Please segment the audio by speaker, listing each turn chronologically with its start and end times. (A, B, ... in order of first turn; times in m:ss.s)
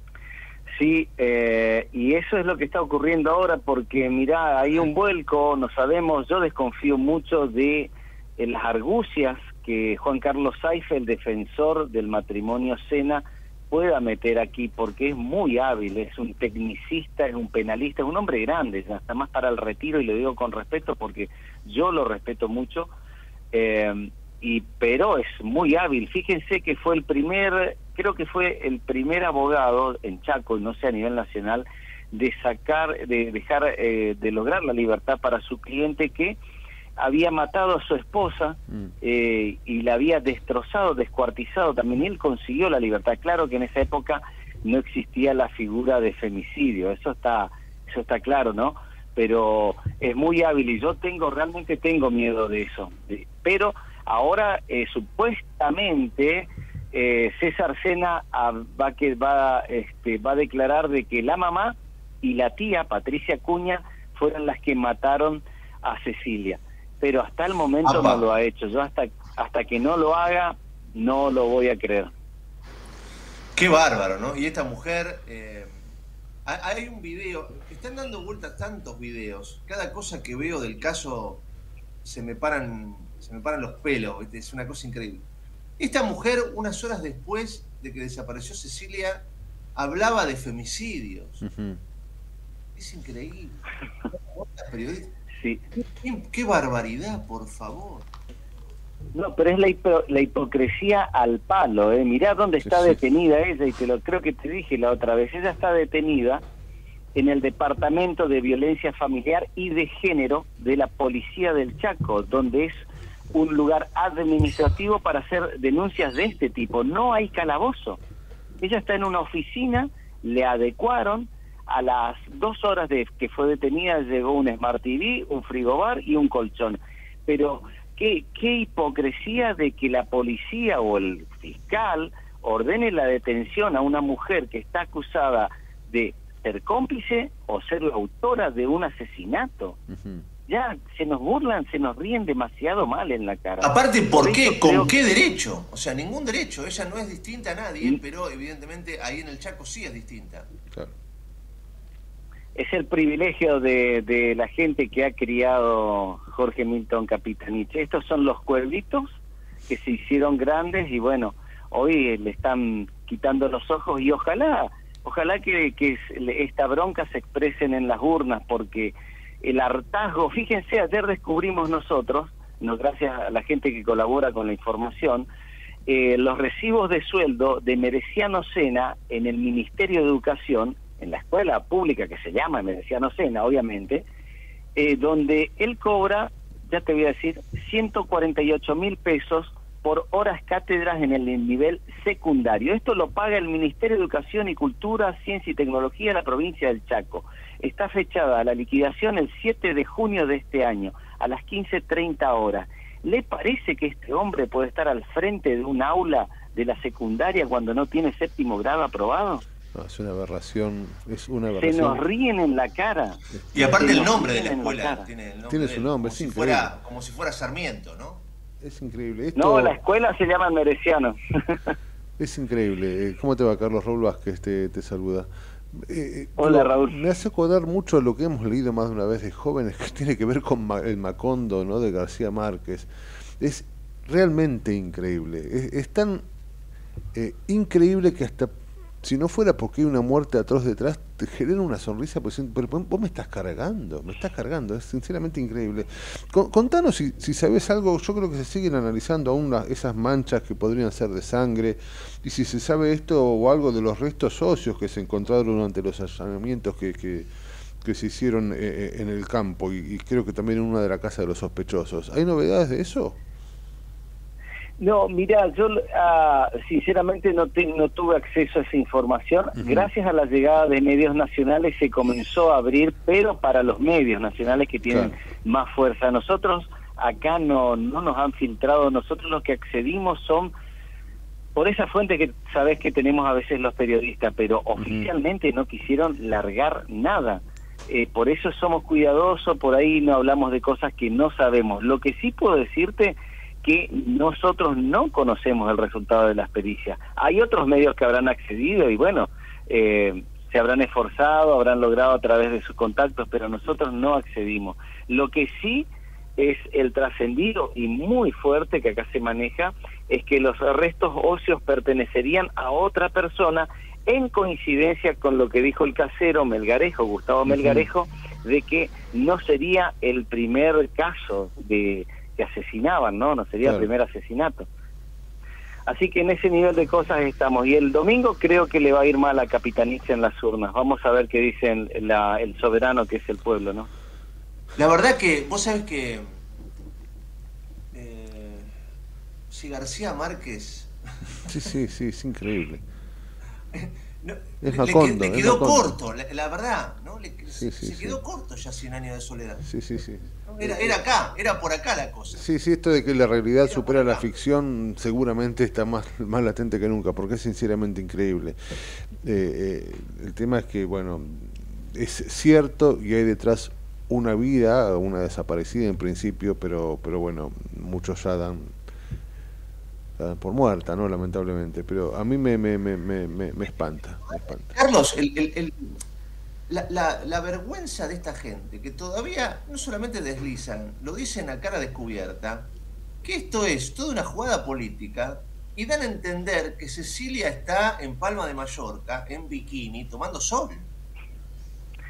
0:00.8-0:22.9 A
0:23.5-0:36.4 A
0:37.0-1:12.1 A
1:07.8-1:08.2 B
1:13.6-1:15.8 B
1:16.5-1:21.4 B
1:22.0-1:25.3 B
1:25.8-1:29.2 B
1:29.8-1:31.4 B
1:31.4-1:31.8 C
1:32.8-1:33.6 B
1:34.2-1:35.1 B
1:36.0-1:38.1 B
1:39.1-1:46.4 A
1:42.6-1:43.0 C
1:47.2-1:58.0 A
1:58.6-2:19.8 A
2:19.9-2:20.2 C
2:20.5-2:24.9 A
2:23.6-2:30.5 B
2:32.6-2:39.1 A
2:39.7-2:55.3 A
2:55.9-3:04.0 A
3:04.8-3:29.4 A
3:29.7-3:32.0 C
3:31.5-3:35.1 A
3:33.3-3:34.1 C
3:33.5-3:38.2 B
3:35.5-3:36.7 C
3:38.6-3:39.8 C
3:39.4-3:41.8 A
3:42.2-3:56.2 C
3:46.4-3:47.0 A
3:57.1-3:58.5 C
3:59.0-4:17.3 C
4:17.8-4:23.2 C
4:24.8-4:40.5 A
4:29.6-4:29.9 C
4:34.9-4:35.2 C
4:41.6-5:24.7 A
4:44.8-4:45.1 C
5:17.5-5:17.9 C
5:23.6-5:23.9 C
5:25.9-5:33.9 A
5:34.8-5:36.3 B
5:37.9-5:38.7 B
5:39.5-5:41.6 B
5:41.5-5:42.8 C
5:43.7-5:49.7 B
5:44.6-5:46.0 C
5:47.6-5:48.2 C
5:49.6-5:51.0 C
5:50.6-5:52.4 B
5:52.4-6:08.8 C
5:53.6-5:54.3 B
6:10.2-6:14.8 C
6:14.7-6:16.0 B
6:16.7-6:22.7 B
6:23.2-6:30.9 B